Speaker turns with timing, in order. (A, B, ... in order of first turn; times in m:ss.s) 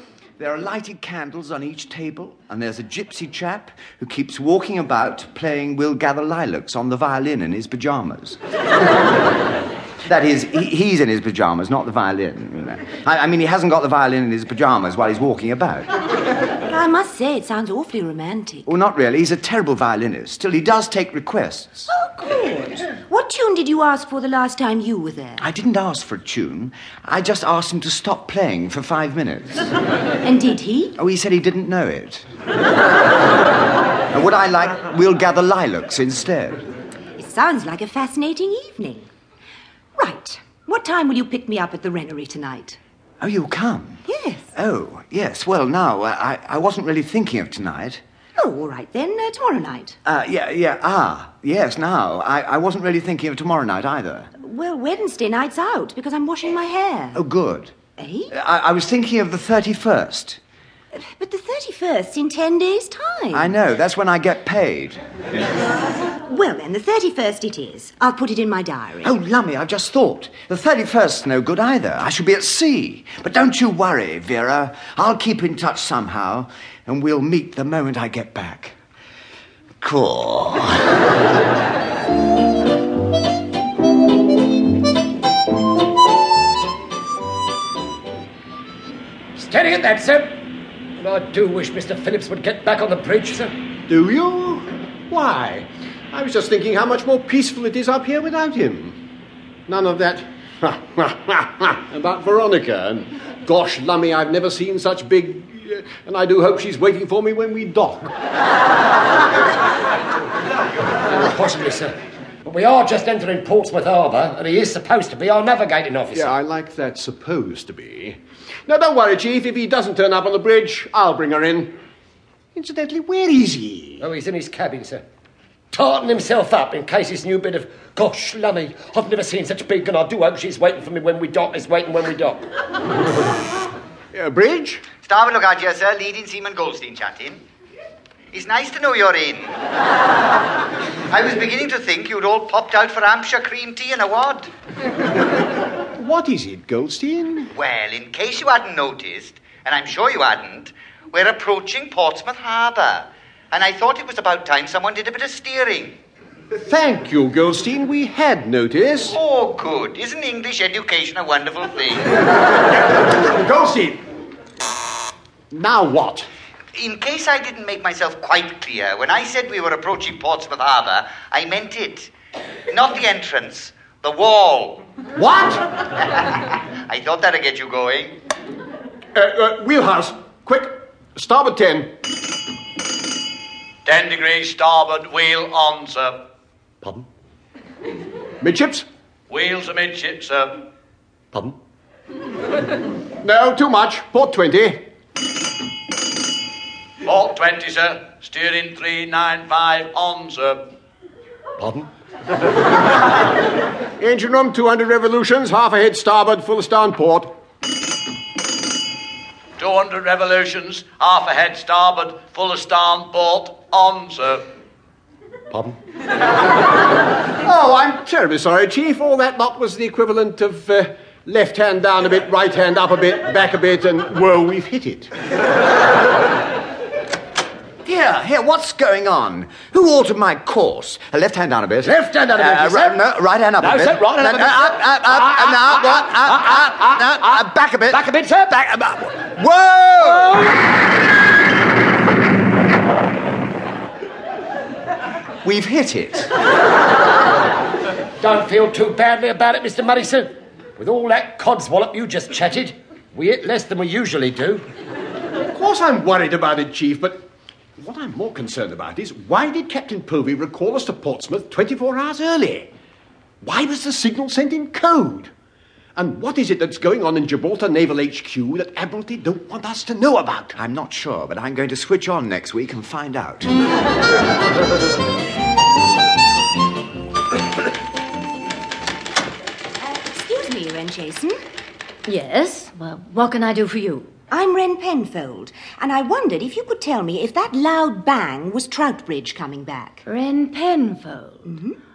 0:00.4-0:08.4 A
0:10.1-0:15.9 A
0:16.7-0:18.7 B
0:18.6-0:21.9 A
0:21.9-0:25.4 B
0:25.4-0:29.6 A
0:30.2-0:30.9 B
0:31.0-0:32.2 A
0:34.1-0:36.6 A
0:37.2-0:39.1 B
0:40.0-0:42.8 B
0:43.2-0:48.0 A
0:44.1-0:44.5 B
0:48.4-0:50.0 B
0:50.0-0:54.3 A
0:54.4-0:57.2 B
0:57.1-0:57.7 A
0:58.0-0:58.3 B
0:58.3-1:00.4 A
1:00.9-1:03.5 B
1:03.3-1:05.0 A
1:06.3-1:09.1 B
1:09.0-1:18.7 A
1:19.8-1:21.0 A
1:29.4-1:30.4 C
1:31.0-1:33.5 C
1:33.9-1:39.0 D
1:39.7-1:48.1 D
1:51.1-1:51.9 C
1:52.4-1:56.3 C
1:56.1-2:01.7 D
2:02.5-2:04.0 D
2:04.0-2:05.0 C
2:05.7-2:12.4 C
2:14.1-2:14.8 D
2:15.0-2:17.4 E
2:18.3-2:19.6 E
2:21.1-2:24.5 E
2:26.0-2:27.5 D
2:27.5-2:36.0 E
2:36.7-2:39.2 D
2:39.1-2:42.3 E
2:42.9-2:44.0 D
2:45.5-2:46.3 D
2:46.7-2:52.1 E
2:52.7-2:54.8 E
2:55.2-2:55.7 D
2:56.4-2:58.2 E
2:59.1-3:01.9 D
3:03.8-3:06.2 F
3:08.4-3:08.8 D
3:09.3-3:10.6 F
3:13.2-3:14.8 D
3:17.0-3:20.6 F
3:21.6-3:21.9 C
3:24.0-3:27.3 D
3:29.6-3:34.4 F
3:37.4-3:45.1 D
3:47.8-3:58.0 A
3:51.8-3:53.0 C
3:53.6-3:59.1 C
3:59.1-4:00.5 A
4:00.0-4:00.5 C
4:05.4-4:06.3 A
4:08.2-4:14.6 C
4:15.5-4:17.2 D
4:17.8-4:22.7 D
4:23.4-4:25.3 D
4:26.0-4:30.5 D
4:30.5-4:33.5 A
4:39.8-4:41.4 B
4:42.0-4:44.1 G
4:44.3-4:50.0 B
4:50.1-4:51.5 G
4:51.4-4:51.8 B